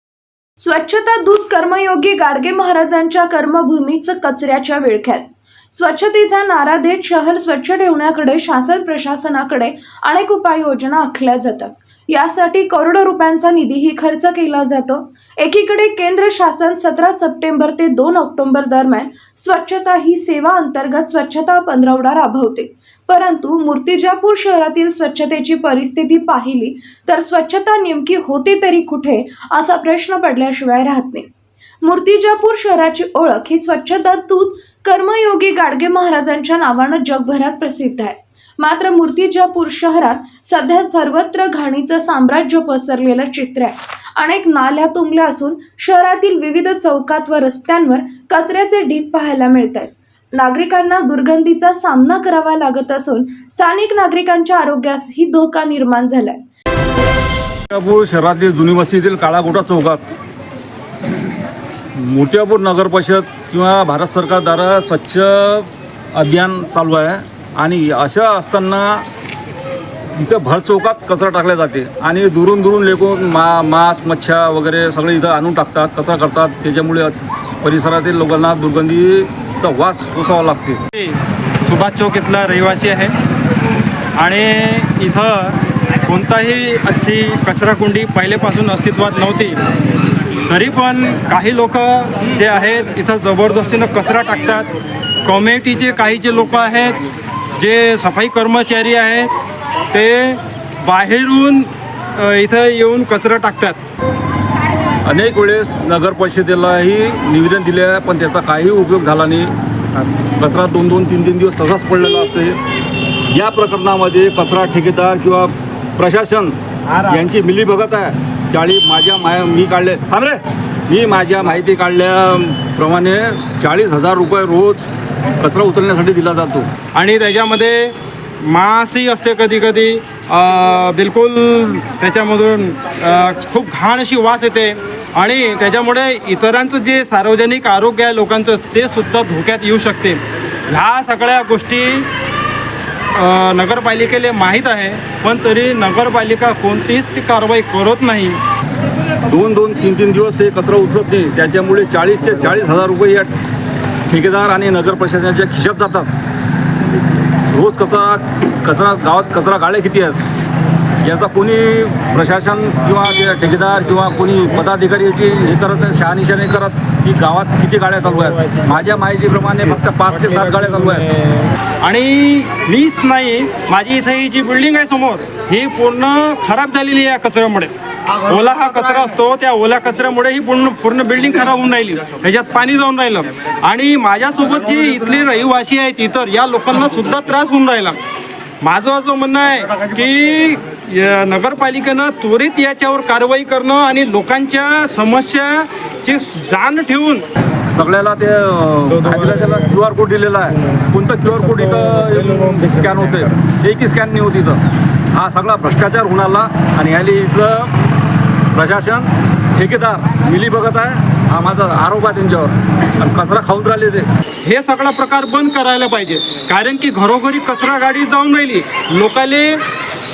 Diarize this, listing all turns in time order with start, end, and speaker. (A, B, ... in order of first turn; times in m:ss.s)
0:00.6-0:31.3 A
0:31.8-0:56.4 A
0:57.7-1:00.0 B
1:02.0-1:09.0 B
1:10.1-1:20.8 B
1:20.9-1:23.1 C
1:24.2-1:29.6 C
1:30.5-1:34.7 C
1:35.2-1:37.0 C
1:37.6-1:39.3 C
1:39.9-1:43.8 C
1:45.0-1:49.5 B
1:50.3-1:52.6 B
1:53.3-1:56.6 B
1:56.9-1:57.2 C
1:57.1-2:04.8 B
2:05.4-2:06.7 B
2:06.9-2:22.1 C
2:23.1-2:28.4 C
2:29.3-2:33.3 B
2:34.1-2:36.1 B
2:37.5-2:40.2 B
2:41.0-2:51.1 B
2:51.8-3:08.0 C
3:08.6-3:17.2 C
3:17.7-3:24.6 B
3:25.1-3:27.7 B
3:28.5-3:34.1 B
3:34.4-3:39.6 C